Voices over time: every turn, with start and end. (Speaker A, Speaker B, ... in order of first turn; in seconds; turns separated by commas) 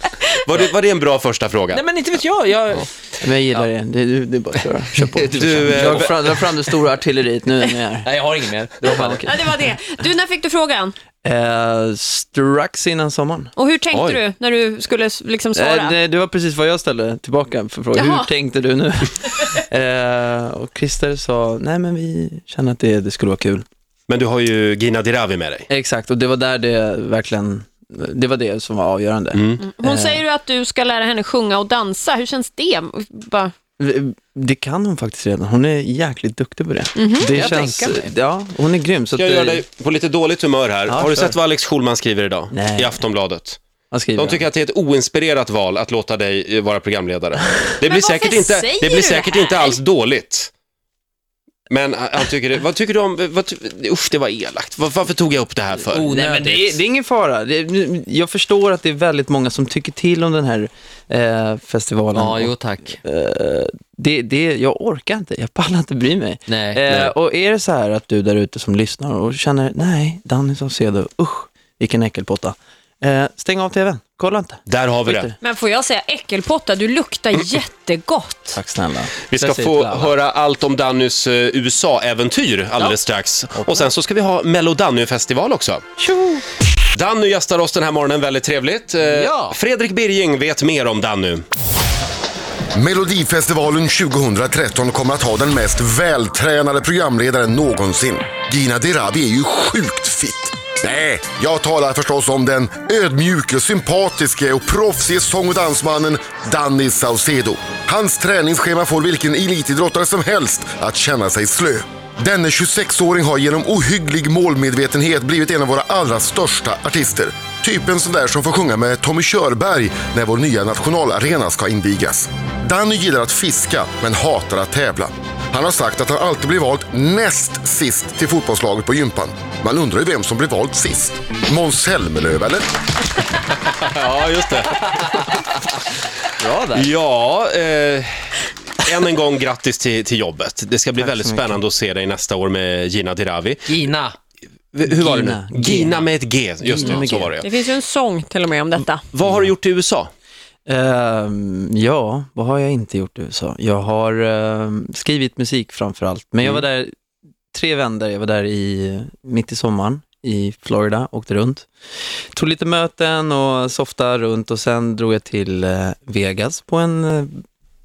Speaker A: 0.3-1.8, Speaker B: 1.7-3.7, Speaker C: 3.2-5.2, Speaker B: 4.5-6.6, Speaker A: 5.0-6.4, Speaker C: 5.8-8.1, Speaker B: 8.0-9.2, Speaker C: 9.0-9.3, Speaker D: 9.2-10.9, Speaker C: 11.2-13.5, Speaker D: 13.6-16.0, Speaker A: 13.9-14.2, Speaker C: 15.5-23.6, Speaker D: 17.9-18.3, Speaker A: 24.1-25.7, Speaker C: 25.7-30.2, Speaker A: 29.3-29.6, Speaker D: 29.6-33.5, Speaker C: 33.8-39.6, Speaker D: 37.0-37.4, Speaker B: 37.3-38.1, Speaker A: 39.1-43.6, Speaker C: 40.9-41.4, Speaker C: 42.5-43.0, Speaker C: 43.9-44.4, Speaker A: 44.1-50.5, Speaker D: 47.9-49.8, Speaker A: 51.7-56.1, Speaker B: 55.9-56.8, Speaker C: 56.1-75.3, Speaker B: 62.1-63.0, Speaker B: 66.5-67.1, Speaker A: 74.7-75.3, Speaker D: 75.4-78.6, Speaker C: 78.5-80.0, Speaker A: 79.3-85.8, Speaker C: 86.0-86.4, Speaker A: 86.9-91.5, Speaker B: 89.1-89.5, Speaker E: 92.7-132.7, Speaker A: 133.6-135.3, Speaker B: 136.4-136.8, Speaker A: 136.7-143.7, Speaker C: 141.0-141.6, Speaker B: 143.7-144.2, Speaker A: 144.7-147.5, Speaker C: 144.8-146.0, Speaker C: 146.6-147.3, Speaker D: 147.4-149.0, Speaker A: 149.1-150.1, Speaker C: 150.7-156.9, Speaker C: 157.5-161.7, Speaker C: 162.3-167.4